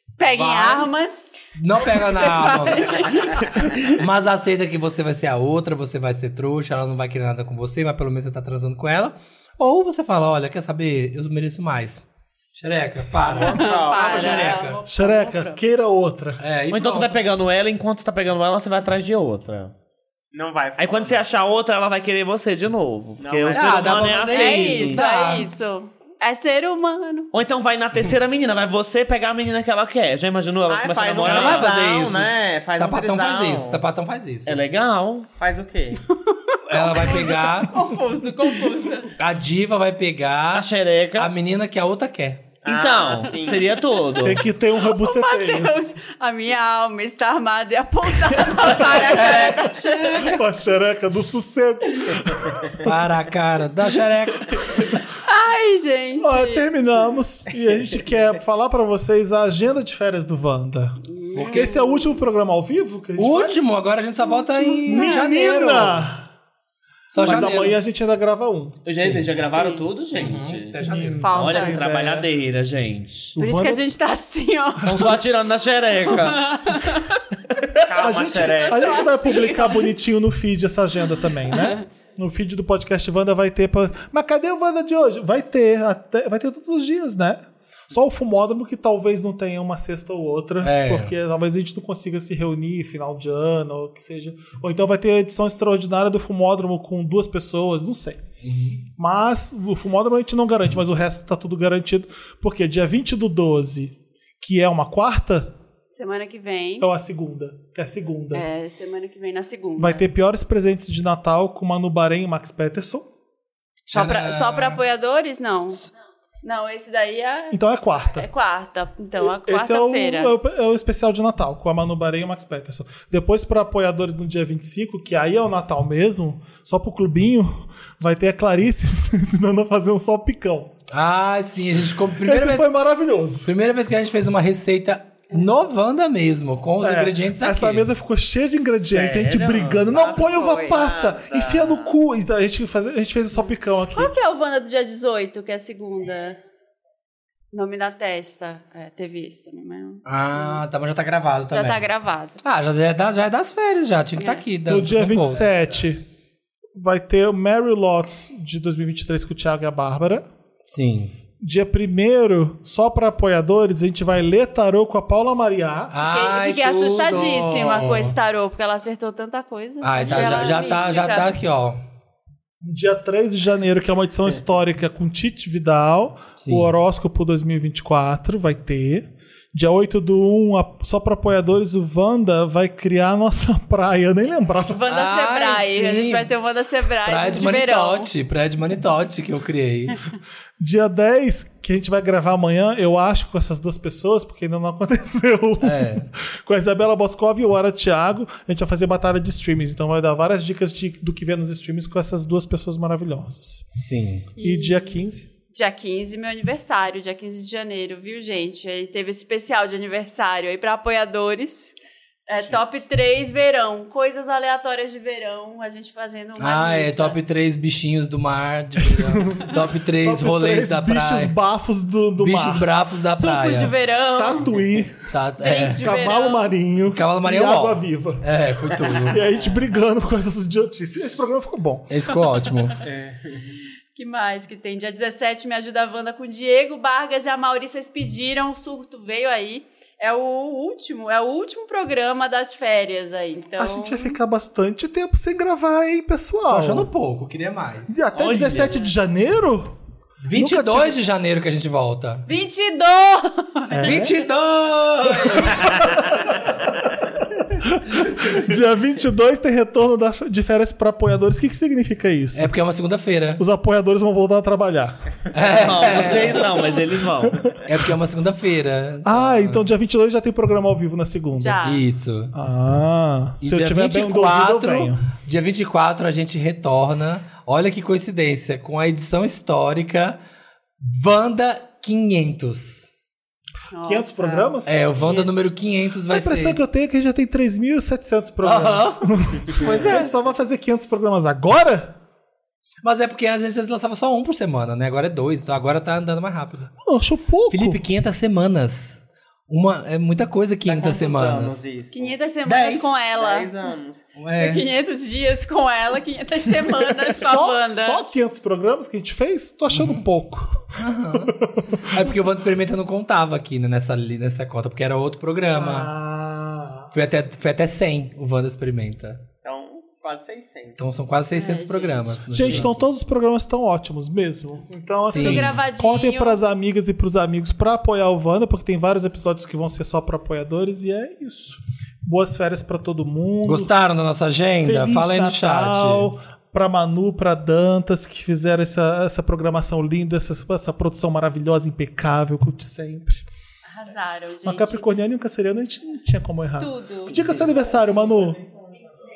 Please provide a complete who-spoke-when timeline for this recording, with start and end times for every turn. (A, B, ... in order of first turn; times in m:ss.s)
0:00.2-0:01.4 A
0:00.3-0:00.9 B
0:01.6-0:14.8 B
0:01.9-0:04.0 A
0:13.2-0:14.6 C
0:13.4-0:15.6 A
0:14.9-0:16.4 D
0:16.4-0:17.2 B
0:16.7-0:19.7 E
0:20.3-0:21.2 C
0:20.8-0:25.0 E
0:23.2-0:24.3 C
0:23.5-0:25.5 B
0:24.3-0:27.3 A
0:27.3-0:31.7 E
0:30.7-0:33.8 C
0:31.2-0:34.6 B
0:34.4-0:35.3 E
0:35.4-0:36.0 C
0:36.2-0:39.1 A
0:36.6-0:37.9 B
0:39.2-0:42.5 B
0:40.5-0:41.3 E
0:42.6-0:43.8 C
0:42.6-0:44.4 E
0:44.2-0:45.7 D
0:44.8-0:50.4 A
0:48.4-0:48.6 E
0:48.7-0:50.4 B
0:50.2-0:53.0 D
0:52.8-0:54.9 B
0:55.2-0:56.6 A
0:56.2-1:03.7 D
1:01.1-1:02.1 A
1:01.4-1:01.7 B
1:03.2-1:06.1 B
1:04.4-1:05.2 A
1:04.8-1:06.3 D
1:07.1-1:07.8 B
1:07.1-1:08.8 D
1:08.8-1:10.8 E
1:09.0-1:09.3 B
1:09.5-1:09.8 A
1:10.1-1:11.6 B
1:10.8-1:12.3 D
1:11.2-1:11.8 A
1:11.3-1:13.3 E
1:13.3-1:13.8 D
1:13.4-1:15.1 A
1:14.8-1:16.6 E
1:16.2-1:17.2 A
1:17.8-1:19.1 C
1:18.0-1:38.2 D
1:18.5-1:19.9 A
1:21.5-1:21.8 A
1:30.6-1:31.1 B
1:38.4-1:38.8 B
1:39.0-1:45.5 D
1:45.9-1:46.9 A
1:46.8-1:48.4 D
1:48.3-1:50.1 A
1:49.8-1:53.1 D
1:53.9-1:54.8 B
1:53.9-1:55.8 A
1:56.4-2:00.3 A
1:57.5-1:58.3 D
1:59.2-2:10.7 D
2:10.9-2:12.7 B
2:12.2-2:13.5 D
2:13.4-2:17.8 B
2:16.8-2:24.1 D
2:18.9-2:19.9 E
2:19.9-2:21.9 C
2:20.1-2:20.8 A
2:23.9-2:26.4 A
2:27.5-2:30.6 A
2:30.0-2:31.9 B
2:31.5-2:32.4 A
2:32.4-2:35.5 B
2:34.2-2:34.4 A
2:34.6-2:36.0 D
2:36.7-2:40.2 D
2:40.6-2:41.1 B
2:41.4-2:45.9 D
2:45.9-2:48.2 B
2:46.0-2:51.4 A
2:49.8-2:51.8 B
2:52.6-3:05.0 D
2:56.4-2:56.7 B
3:04.7-3:08.1 A
3:04.8-3:06.3 B
3:07.0-3:10.0 B
3:10.6-3:23.7 D
3:15.6-3:16.1 B
3:23.8-3:24.3 B
3:24.4-3:25.0 A
3:24.4-3:25.3 D
3:25.5-3:31.7 A
3:32.3-3:37.2 A
3:36.4-3:41.3 B
3:38.8-3:42.7 D
3:42.2-3:43.8 B
3:43.1-3:44.5 A
3:44.2-3:45.1 D
3:45.1-3:45.9 B
3:45.4-3:46.5 A
3:45.8-3:48.2 D
3:46.9-3:49.2 B
3:49.0-3:49.6 C
3:49.1-3:52.0 D
3:51.9-3:52.8 B
3:52.8-3:53.4 C
3:53.9-4:04.2 A
4:03.6-4:06.9 D
4:06.5-4:08.0 B
4:07.9-4:09.7 D
4:08.1-4:08.9 E
4:10.2-4:12.2 B
4:10.3-4:11.0 D
4:12.3-4:14.0 A
4:13.7-4:14.1 D
4:13.8-4:15.8 B
4:15.0-4:15.6 A
4:15.3-4:16.5 D
4:17.6-4:22.5 D
4:22.3-4:23.4 B
4:23.4-4:25.0 D
4:25.3-4:26.4 B
4:25.6-4:27.4 E
4:27.6-4:29.7 B
4:29.0-4:31.6 D
4:31.3-4:31.8 A
4:31.6-4:32.3 B
4:32.3-4:35.1 D
4:33.4-4:40.2 B
4:40.8-4:42.9 B
4:43.7-4:45.2 A
4:43.8-4:45.4 D
4:44.6-4:46.6 B
4:46.1-4:52.0 D
4:48.4-4:50.1 B
4:49.5-4:49.8 C
4:52.8-4:56.7 B
4:56.8-4:57.8 D
4:57.5-5:01.6 B
5:00.6-5:02.1 C
5:01.9-5:03.5 A
5:02.4-5:03.0 B
5:03.2-5:04.1 C
5:04.2-5:04.7 B
5:04.3-5:08.0 A
5:07.0-5:12.1 D
5:09.7-5:10.0 B
5:10.7-5:15.9 B
5:15.5-5:16.9 D
5:16.9-5:19.2 B
5:19.4-5:20.8 C
5:20.8-5:22.8 B
5:21.3-5:22.2 A
5:22.3-5:33.7 D
5:25.0-5:26.4 A
5:25.0-5:25.6 B
5:33.4-5:36.1 B
5:34.6-5:43.2 D
5:43.7-5:45.0 A
5:44.4-5:48.5 D
5:46.6-5:47.2 A